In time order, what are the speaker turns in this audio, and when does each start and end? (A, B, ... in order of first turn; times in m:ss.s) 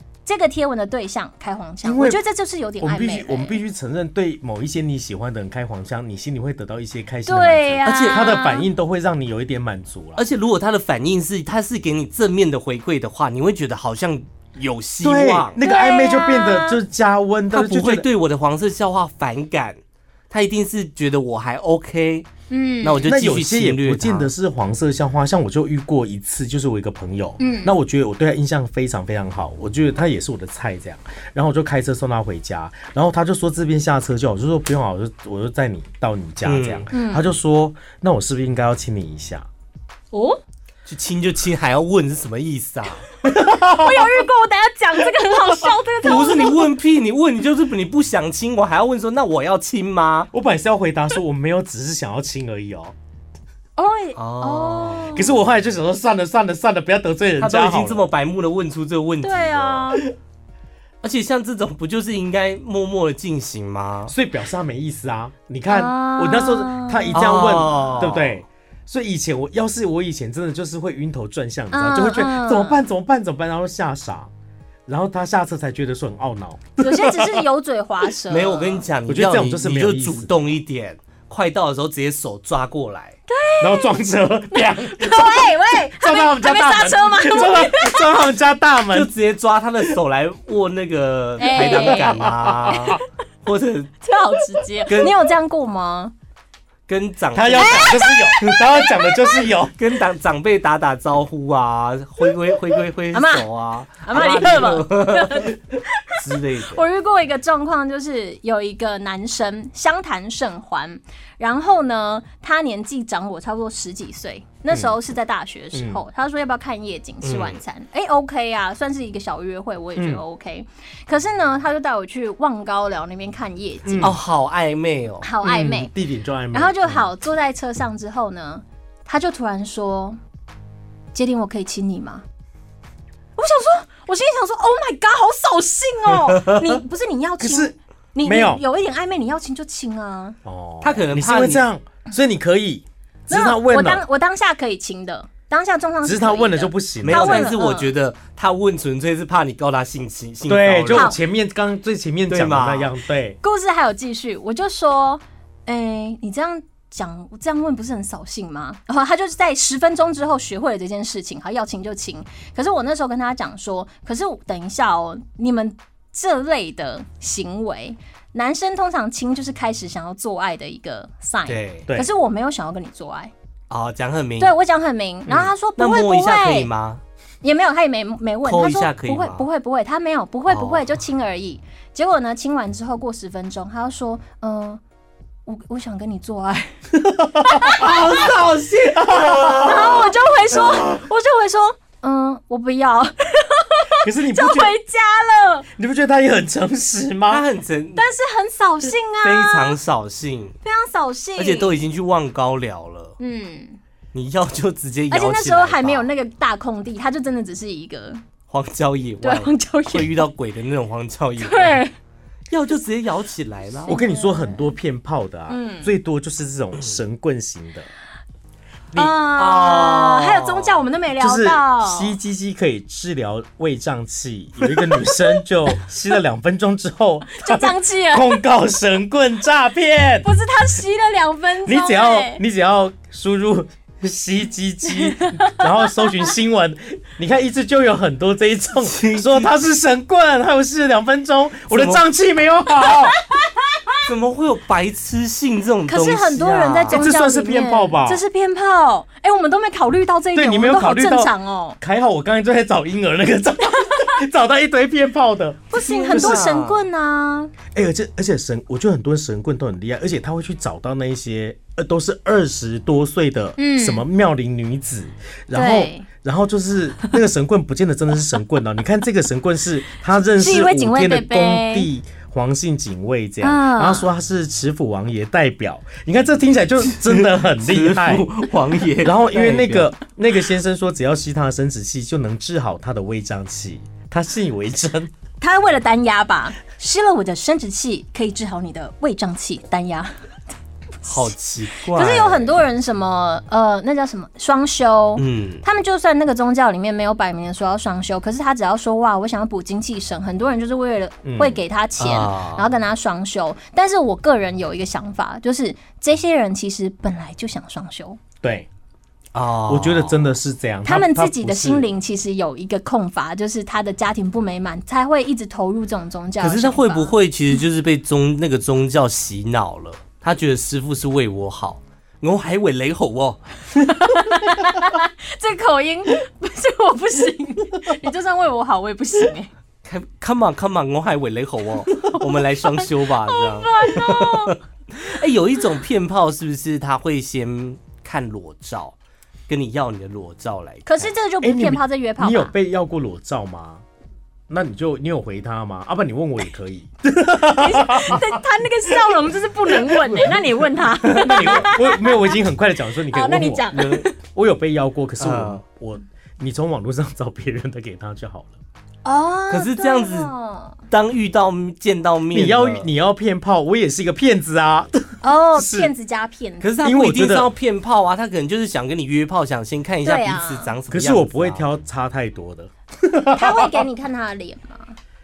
0:00.3-0:03.6 A
0:01.8-0:02.2 B
0:02.8-0:10.2 B
0:07.3-0:08.7 A
0:07.9-0:08.4 C
0:10.2-0:15.6 C
0:15.0-0:18.1 B
0:15.6-0:16.8 A
0:17.5-0:19.8 C
0:20.3-0:22.3 C
0:22.5-0:23.1 A
0:22.8-0:24.3 C
0:23.0-0:39.5 B
0:27.4-0:27.8 A
0:36.4-0:36.9 C
0:36.9-0:37.2 A
0:40.1-0:40.4 A
0:40.9-0:43.0 C
0:43.2-0:44.3 B
0:43.5-0:46.7 A
0:45.2-0:45.8 B
0:46.0-0:50.3 C
0:50.3-0:52.9 B
0:53.8-0:55.3 A
0:54.2-0:55.2 C
0:55.1-0:58.1 B
0:57.4-1:00.0 C
0:59.2-1:00.1 A
1:01.0-1:04.1 C
1:04.1-1:14.3 B
1:05.7-1:08.0 A
1:07.1-1:08.4 C
1:11.7-1:12.8 A
1:14.9-1:17.4 B
1:16.8-1:18.9 A
1:18.3-1:23.2 C
1:19.1-1:20.3 B
1:23.3-1:24.0 A
1:23.6-1:29.1 B
1:24.5-1:28.2 A
1:28.9-1:34.0 C
1:31.4-1:33.0 A
1:31.5-1:33.0 B
1:34.0-1:36.1 A
1:34.9-1:35.2 C
1:36.9-1:38.6 C
1:37.3-1:39.8 B
1:37.5-1:39.4 A
1:39.8-1:46.8 C
1:43.1-1:43.5 A
1:44.0-2:04.2 A
1:54.7-1:55.0 B
1:55.7-1:56.0 B
1:57.2-1:57.6 C
2:00.0-2:00.2 B
2:03.8-2:04.2 B
2:04.0-2:05.3 C
2:05.2-2:05.9 A
2:05.4-2:07.1 B
2:06.5-2:10.2 A
2:11.2-2:12.2 A
2:13.4-2:20.4 A
2:16.1-2:16.8 C
2:17.4-2:18.6 B
2:20.4-2:24.0 B
2:20.8-2:21.6 C
2:23.3-2:27.9 A
2:26.0-2:27.5 B
2:27.0-2:31.2 C
2:30.4-2:33.4 B
2:30.9-2:31.2 A
2:32.3-2:32.9 C
2:33.4-2:53.3 A
2:51.5-2:51.9 C
2:53.7-2:54.5 C
2:54.4-2:56.7 A
2:55.3-2:57.0 C
2:57.4-3:04.8 A
2:58.4-2:59.4 C
3:00.5-3:01.0 C
3:05.5-3:06.8 A
3:06.9-3:08.0 B
3:07.4-3:08.2 A
3:07.7-3:10.2 C
3:08.9-3:10.0 B
3:09.6-3:15.7 A
3:10.5-3:11.0 B
3:14.0-3:14.7 B
3:15.8-3:17.5 B
3:17.3-3:18.0 C
3:18.0-3:19.8 A
3:19.2-3:20.6 C
3:20.6-3:21.8 A
3:21.4-3:23.2 C
3:23.2-3:23.8 A
3:24.1-3:26.1 C
3:25.1-3:28.2 A
3:28.5-3:31.8 C
3:29.2-3:30.3 A
3:31.4-3:31.9 A
3:32.5-3:34.0 C
3:33.9-3:37.9 B
3:33.9-3:34.7 A
3:35.5-3:35.9 A
3:39.0-3:42.2 A
3:39.4-3:40.8 C
3:41.2-3:50.3 B
3:47.3-3:48.4 A
3:50.2-3:52.4 A
3:51.6-4:03.2 B
3:55.0-3:56.3 A
3:58.8-3:59.5 C
4:01.7-4:02.0 C
4:03.3-4:04.0 A
4:04.0-4:07.1 C
4:05.9-4:11.8 A
4:06.9-4:08.2 B
4:10.4-4:16.5 B
4:15.7-4:17.5 A
4:15.7-4:16.8 C
4:17.7-4:38.3 B
4:23.6-4:24.0 A
4:25.5-4:26.1 A
4:30.4-4:31.9 A
4:33.4-4:34.1 A
4:36.9-4:39.9 C
4:39.0-4:45.1 B
4:45.4-4:50.2 A
4:51.0-4:52.6 C
4:51.0-5:08.2 A
4:55.2-4:55.6 C
5:01.2-5:01.6 B
5:02.0-5:02.7 C
5:08.4-5:08.7 B
5:09.3-5:10.4 C
5:09.7-5:11.9 B
5:10.8-5:17.2 A
5:16.4-5:23.4 C
5:23.8-5:29.5 A
5:29.8-5:39.0 C
5:31.9-5:34.6 A
5:39.5-5:41.1 C
5:40.9-5:42.5 A
5:41.4-5:43.8 B
5:44.5-5:48.4 B
5:47.6-5:52.4 A
5:49.7-5:50.4 B
5:51.1-5:51.5 C
5:51.1-5:58.5 B
5:53.1-5:54.2 A
5:53.7-5:54.0 C
5:55.2-5:55.6 C
5:59.0-6:00.8 A
5:59.5-6:00.3 C
6:00.9-6:02.9 C
6:02.3-6:05.9 B
6:05.2-6:06.7 A
6:06.6-6:11.7 C
6:06.8-6:07.5 B
6:10.0-6:10.7 A
6:10.9-6:13.8 B
6:13.3-6:15.0 A